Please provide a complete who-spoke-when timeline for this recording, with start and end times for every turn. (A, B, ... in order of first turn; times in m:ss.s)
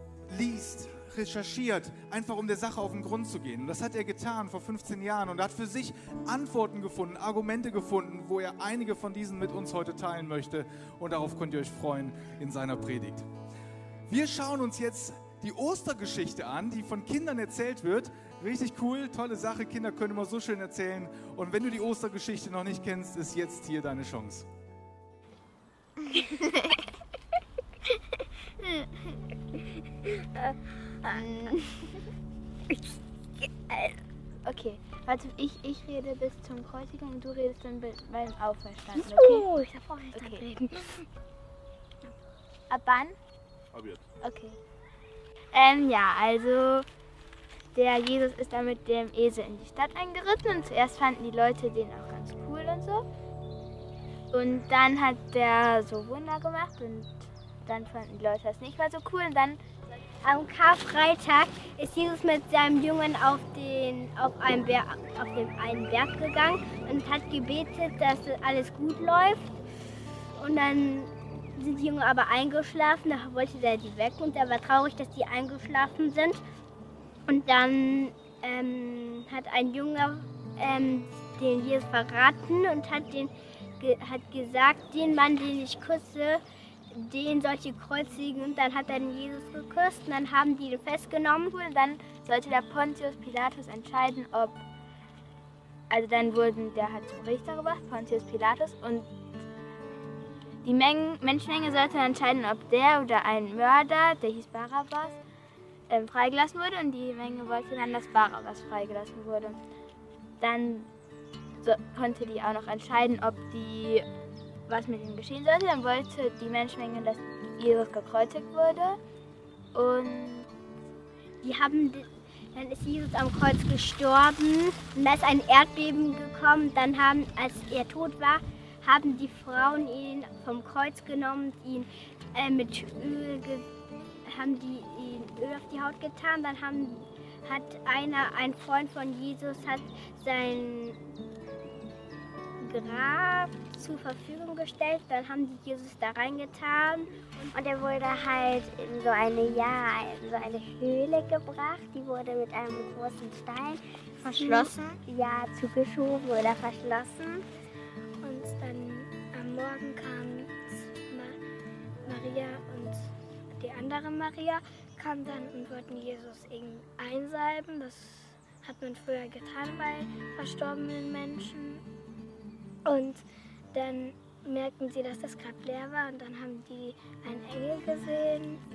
0:00.3-0:13.3 A
0:14.1-0:24.5 A
0:34.4-0:40.5 B
0:42.7-0:43.2 B
0:44.2-0:44.6 B
0:45.5-0:46.9 B
0:47.7-0:53.1 B
0:54.3-0:59.6 B
1:00.2-1:09.5 C
1:10.4-1:16.4 C
1:17.3-1:26.4 C
1:26.9-1:31.6 C
1:31.6-1:34.6 B
1:35.9-1:39.1 B
1:40.6-1:45.2 B
1:45.9-1:49.6 B
1:50.4-1:50.9 B
1:51.6-1:54.0 B
1:54.7-1:59.0 B
1:59.7-2:00.5 B
2:01.4-2:13.7 C
2:14.3-2:21.0 C
2:22.6-2:27.5 C
2:27.5-2:37.4 D
2:38.2-2:41.4 E
2:42.0-2:51.8 E
2:52.8-2:58.6 E